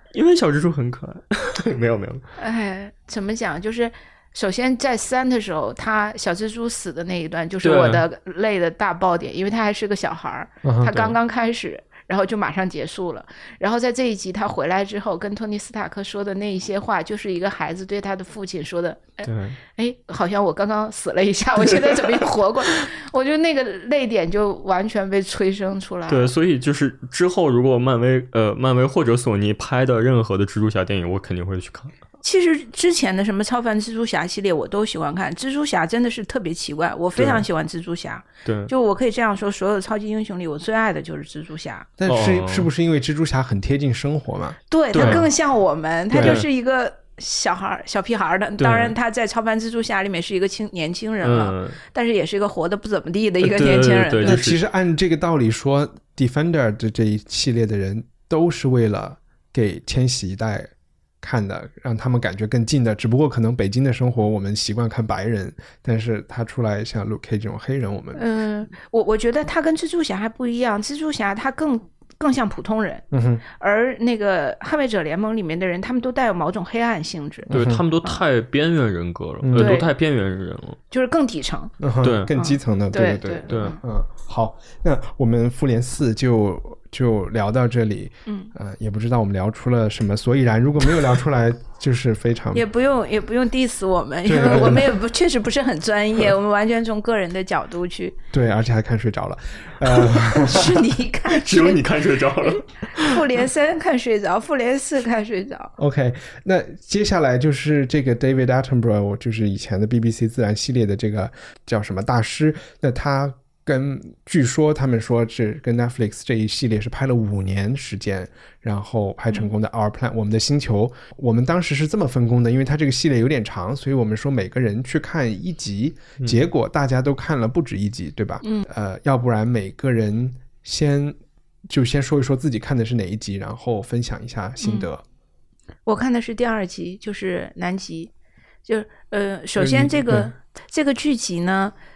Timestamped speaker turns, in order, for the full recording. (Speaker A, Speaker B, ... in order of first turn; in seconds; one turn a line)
Speaker A: 0.1-2.2
Speaker B: 2.4-26.3
Speaker A: 7.6-8.1
Speaker C: 10.6-10.9
Speaker A: 10.8-11.2
Speaker A: 19.2-19.6
Speaker A: 26.1-31.9
Speaker B: 32.2-41.9
Speaker A: 37.2-37.4
Speaker A: 38.5-38.7
Speaker C: 42.0-45.2
Speaker A: 42.1-42.7
Speaker B: 44.7-54.4
Speaker A: 44.9-45.3
Speaker C: 46.1-46.4
Speaker A: 46.2-46.5
Speaker A: 48.6-49.0
Speaker A: 51.2-51.8
Speaker A: 53.4-54.6
Speaker C: 54.2-60.7
Speaker C: 61.2-68.2
Speaker B: 68.2-77.5
Speaker C: 73.1-73.4
Speaker C: 77.5-77.8
Speaker A: 77.5-80.8
Speaker C: 79.4-79.8
Speaker B: 79.6-79.9
Speaker B: 80.9-81.7
Speaker C: 81.8-92.7
Speaker A: 82.0-82.3
Speaker B: 82.3-83.8
Speaker A: 83.5-83.8
Speaker B: 88.3-88.5
Speaker B: 92.5-98.2
Speaker C: 94.3-95.0
Speaker C: 98.3-100.7
Speaker B: 100.3-101.8
Speaker A: 101.3-103.2
Speaker B: 102.4-105.7
Speaker C: 105.8-131.2
Speaker C: 131.7-135.0
Speaker B: 134.6-134.9
Speaker B: 135.9-138.1
Speaker B: 138.7-141.7
Speaker C: 139.6-140.3